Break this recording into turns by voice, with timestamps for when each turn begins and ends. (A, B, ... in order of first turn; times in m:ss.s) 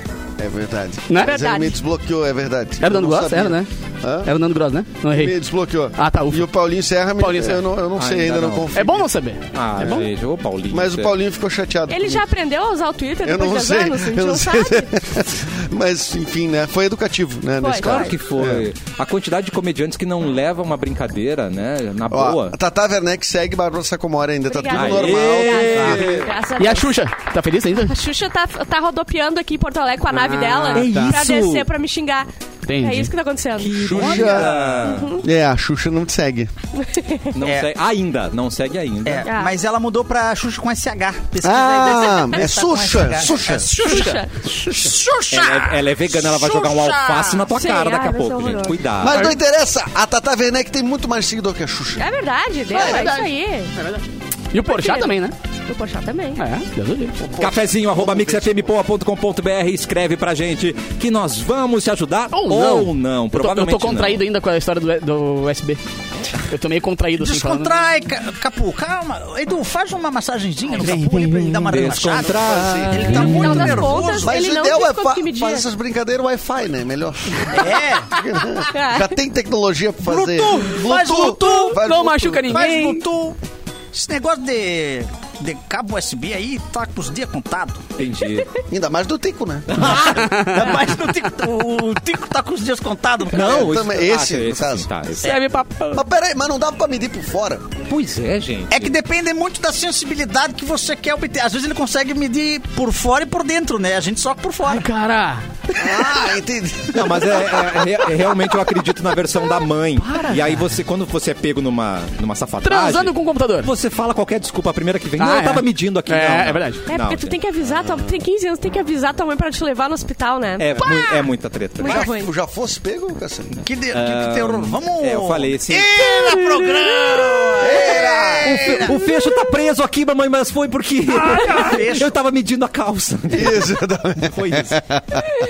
0:00.4-0:04.3 A
0:01.1-0:01.4 B
0:01.2-0:01.8 C
0:02.8-0:03.7 B
0:04.2-0:05.4 B
0:05.0-0:09.1 A
0:06.0-0:06.5 B
0:07.2-0:07.6 B
0:08.0-0:08.7 D
0:08.7-0:10.1 B
0:09.5-0:11.1 D
0:09.8-0:10.0 A
0:10.7-0:12.2 A
0:11.9-0:14.9 C
0:13.2-0:18.7 A
0:17.6-0:18.2 C
0:17.8-0:22.6 D
0:22.1-0:26.1 A
0:24.5-0:26.9 C
0:24.7-0:26.3 D
0:26.6-0:27.9 B
0:27.8-0:34.2 C
0:30.1-0:31.2 B
0:30.7-0:31.7 D
0:32.6-0:33.1 B
0:33.6-0:35.2 D
0:33.8-0:36.5 A
0:33.9-0:34.9 E
0:34.8-0:35.2 C
0:36.8-0:37.3 C
0:37.3-0:39.3 D
0:37.4-0:37.7 E
0:39.0-0:47.5 E
0:39.2-0:39.5 C
0:41.4-0:43.7 A
0:43.6-0:44.2 B
0:43.7-0:44.4 C
0:45.3-0:49.4 D
0:47.5-0:48.8 C
0:49.0-0:52.0 A
0:52.0-0:53.7 C
0:52.7-0:55.3 B
0:52.7-0:53.0 A
0:54.6-0:56.4 C
0:56.4-0:57.2 B
0:57.2-0:58.7 A
0:57.4-1:04.2 D
1:02.3-1:05.8 B
1:06.4-1:07.7 B
1:07.2-1:14.4 E
1:10.8-1:13.8 D
1:10.8-1:11.7 B
1:12.3-1:13.0 A
1:13.2-1:15.6 C
1:14.2-1:22.5 A
1:17.5-1:18.2 E
1:18.6-1:19.1 C
1:20.0-1:21.8 E
1:21.4-1:23.0 B
1:22.4-1:23.4 E
1:23.9-1:27.8 E
1:28.0-1:28.5 D
1:28.7-1:30.0 A
1:29.7-1:30.7 D
1:30.2-1:30.6 B
1:30.3-1:33.6 E
1:33.3-1:35.3 D
1:33.3-1:34.9 A
1:35.2-1:36.0 B
1:35.9-1:37.7 A
1:37.9-1:38.9 D
1:38.7-1:44.8 E
1:44.6-1:45.4 B
1:45.7-1:47.9 A
1:46.9-1:57.7 D
1:50.0-1:50.6 B
1:52.6-1:53.7 B
1:55.2-1:56.8 B
1:56.9-2:01.2 C
2:00.6-2:02.0 D
2:01.8-2:02.3 C
2:01.8-2:03.6 A
2:03.6-2:09.0 E
2:03.9-2:06.1 D
2:07.6-2:08.9 A
2:08.4-2:14.8 D
2:11.4-2:12.1 E
2:13.3-2:15.3 A